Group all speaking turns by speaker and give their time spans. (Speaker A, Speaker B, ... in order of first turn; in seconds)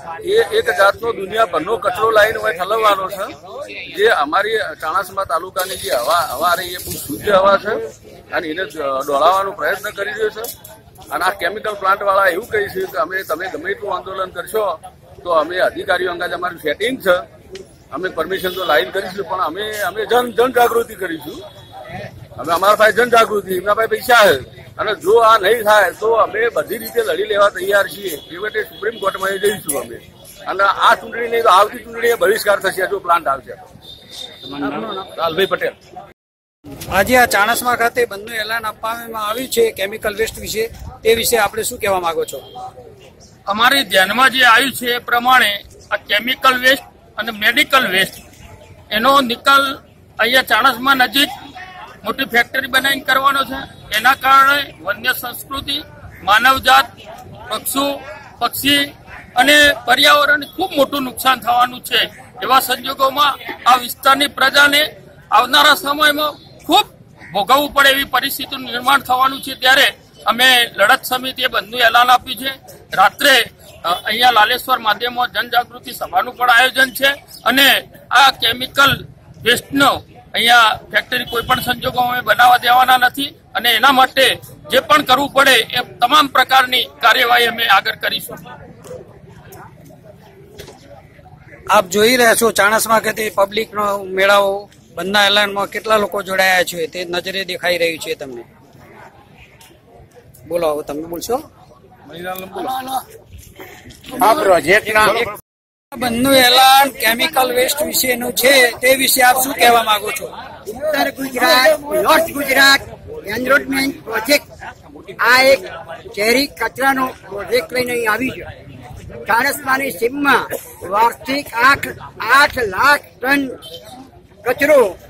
Speaker A: 0.2-10.5, 11.1-17.2, 17.9-21.4, 22.4-33.6, 34.5-35.8, 102.1-103.0
Speaker B: 34.6-35.0, 36.9-42.5, 91.7-98.5, 100.5-101.5, 104.7-105.3, 105.9-110.3
Speaker C: 43.5-48.2, 48.9-51.3, 52.0-56.9, 57.5-88.4
Speaker D: 110.7-114.5, 115.2-118.5, 119.2-123.5, 124.4-124.9